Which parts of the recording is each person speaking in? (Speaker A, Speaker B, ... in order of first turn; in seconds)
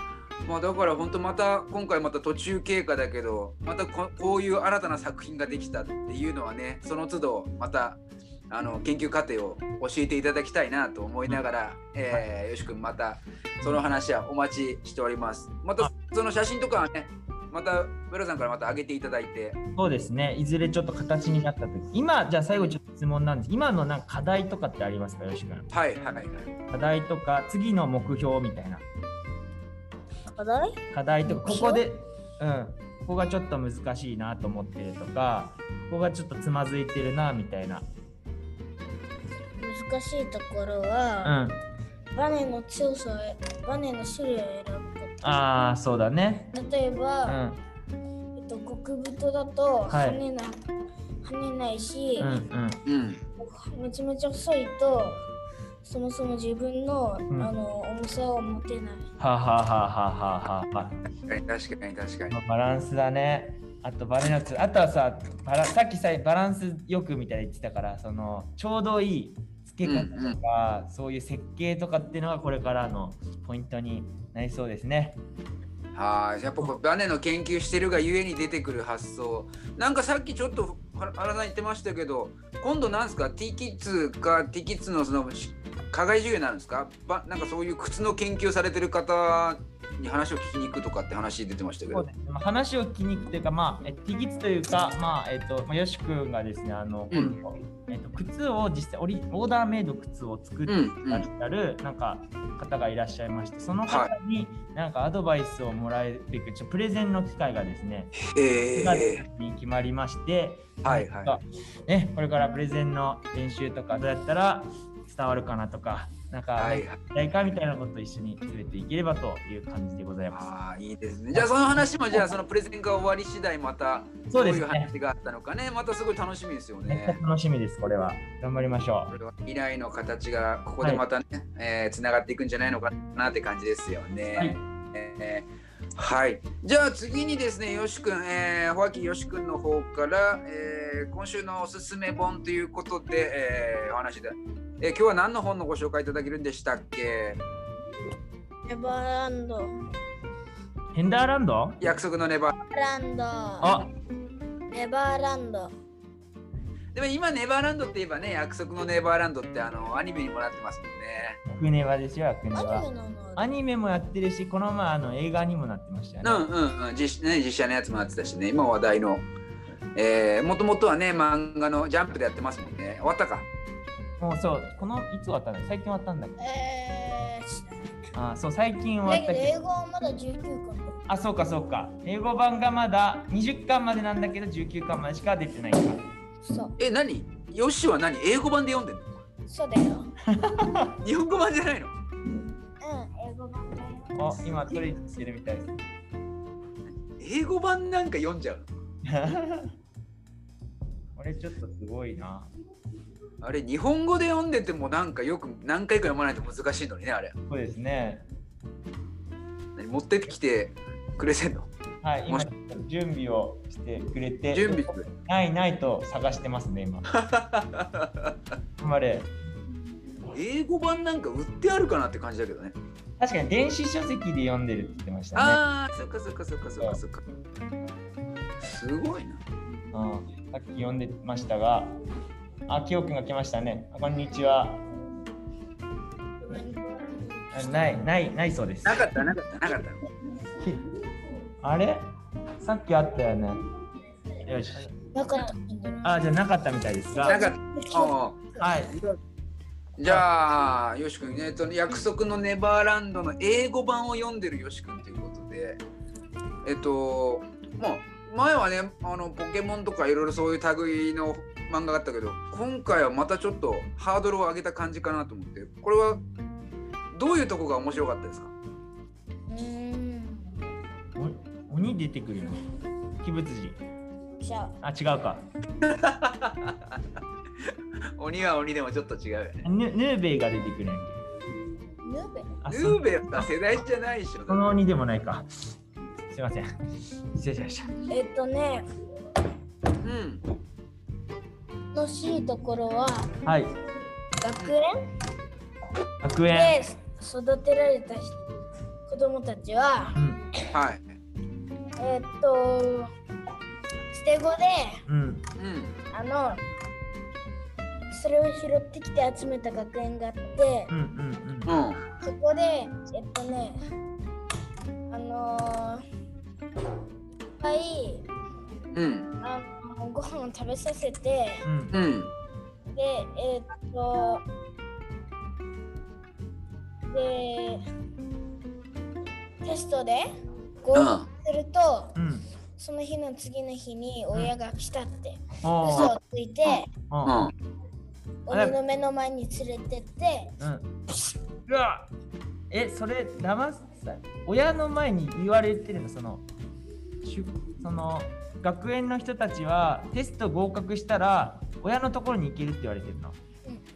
Speaker A: 0.5-19.6, 22.5-22.8, 25.7-26.5, 52.9-53.2, 61.3-62.4, 69.8-70.4, 76.0-92.1, 97.1-97.4, 100.7-101.3, 103.9-104.1, 108.2-109.2, 110.8-111.4, 116.6-117.0, 120.3-127.2, 129.1-147.4, 151.8-152.6, 156.9-161.4, 166.2-169.3, 170.0-173.5, 186.8-189.1, 191.0-191.9, 197.2-198.7, 203.4-207.3, 209.8-211.7, 214.5-215.1, 217.2-218.3, 220.3-222.8, 225.3-227.2, 228.6-229.4, 238.8-240.0, 247.2-249.2, 250.0-255.8, 256.6-266.2, 267.1-268.5, 275.8-277.0, 277.7-279.7, 282.7-284.6, 290.0-290.4, 300.7-301.0, 305.6-305.9, 311.7-312.0, 318.9-319.3, 321.9-322.3, 330.9-331.3, 335.9-336.1, 336.7-337.5
Speaker B: 19.8-25.7, 26.7-28.8, 30.9-37.9, 41.2-41.6, 45.2-46.5, 47.3-47.6, 49.9-50.2, 52.2-52.8, 59.2-61.0, 62.3-75.2, 91.9-108.2, 108.7-120.5, 121.3-122.3, 124.3-124.9, 126.9-129.1, 150.9-151.8, 153.6-153.9, 161.5-166.5, 174.2-176.4, 178.1-179.6, 181.1-186.0, 190.3-191.0, 194.2-195.8, 199.1-199.7, 201.2-202.5, 207.5-208.2, 212.0-217.1, 218.8-219.3, 223.2-225.6, 229.9-231.9, 232.7-234.8, 237.5-239.1, 240.6-240.8, 241.6-242.1, 242.6-243.6, 244.4-244.9, 246.0-247.4, 248.6-248.9, 271.2-272.6, 273.2-273.8, 274.8-275.4, 279.6-281.2, 282.6-283.6, 284.5-285.5, 286.3-286.7, 287.3-287.9, 293.4-293.7, 296.2-296.8, 300.1-300.4, 305.1-305.4, 310.9-311.7, 321.6-321.9, 332.2-332.5, 335.6-336.1, 337.1-337.5, 338.5-338.8, 340.6-340.9, 341.7-342.1, 342.7-346.5, 347.2-353.4
Speaker C: 30.3-31.8, 39.6-41.4, 42.1-45.4, 46.5-47.4, 48.4-50.6, 51.2-52.3, 53.4-55.2, 55.8-59.1, 148.7-149.7, 152.7-153.8, 154.7-155.7, 162.5-163.5, 176.4-178.1, 179.1-181.0, 186.4-186.8, 189.5-190.1, 192.8-194.3, 236.5-237.7, 245.1-246.1, 247.2-248.1, 269.5-270.6, 274.4-274.8, 282.0-282.5, 288.1-288.9, 291.9-293.3, 294.4-294.9, 296.5-298.5, 299.1-300.2, 302.0-303.1, 304.1-305.0, 306.1-306.6, 308.1-310.9, 312.2-313.8, 315.1-316.0, 317.6-318.3, 319.4-321.7, 322.9-324.4, 327.1-327.8, 329.6-330.3, 330.8-332.2, 332.8-336.9, 338.5-340.6